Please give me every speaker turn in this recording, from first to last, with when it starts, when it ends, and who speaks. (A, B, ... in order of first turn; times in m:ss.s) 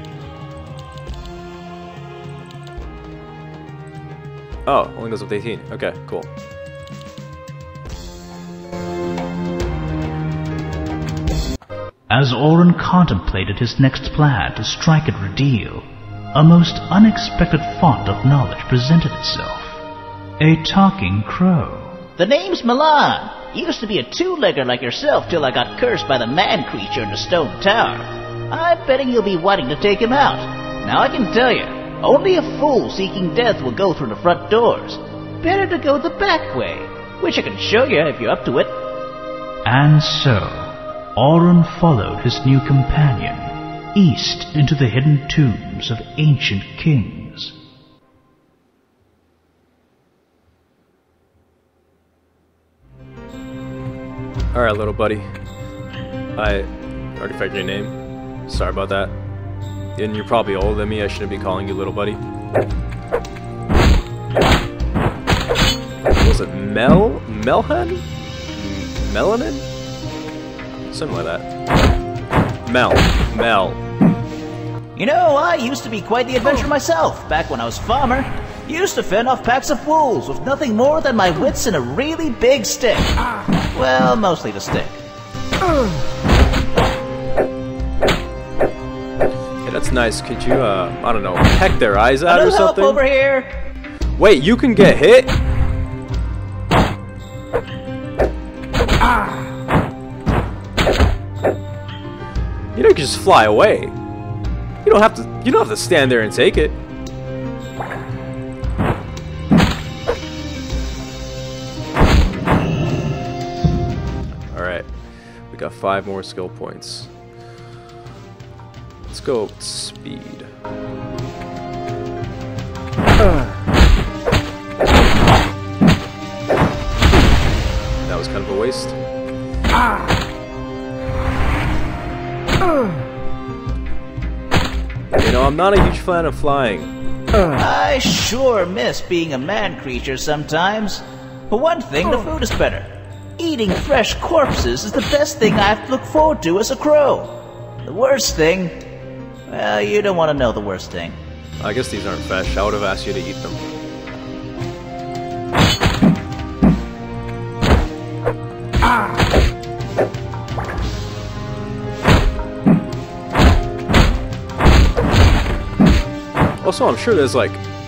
0:04.6-0:06.3 A
0:12.1-0:19.8 B
0:20.4-0:22.0 B
0:22.2-0:38.8 C
0:39.6-0:47.6 B
0:54.5-0:55.3 A
0:56.4-0:59.1 A
0:59.9-1:02.2 A
1:06.2-1:08.0 A
1:08.6-1:09.6 A
1:10.9-1:11.4 A
1:12.6-1:13.8 A
1:15.0-1:23.2 C
1:23.7-1:25.0 C
1:29.6-1:33.0 A
1:32.2-1:33.5 C
1:34.2-1:35.3 A
1:42.7-1:44.0 A
1:44.8-1:46.8 A
1:54.5-1:54.9 A
1:55.5-1:57.1 A
1:59.1-2:00.5 A
2:08.0-2:09.0 A
2:15.2-2:16.9 A
2:17.6-2:28.8 C
2:29.5-2:31.2 C
2:31.6-2:33.6 A
2:46.6-2:47.6 A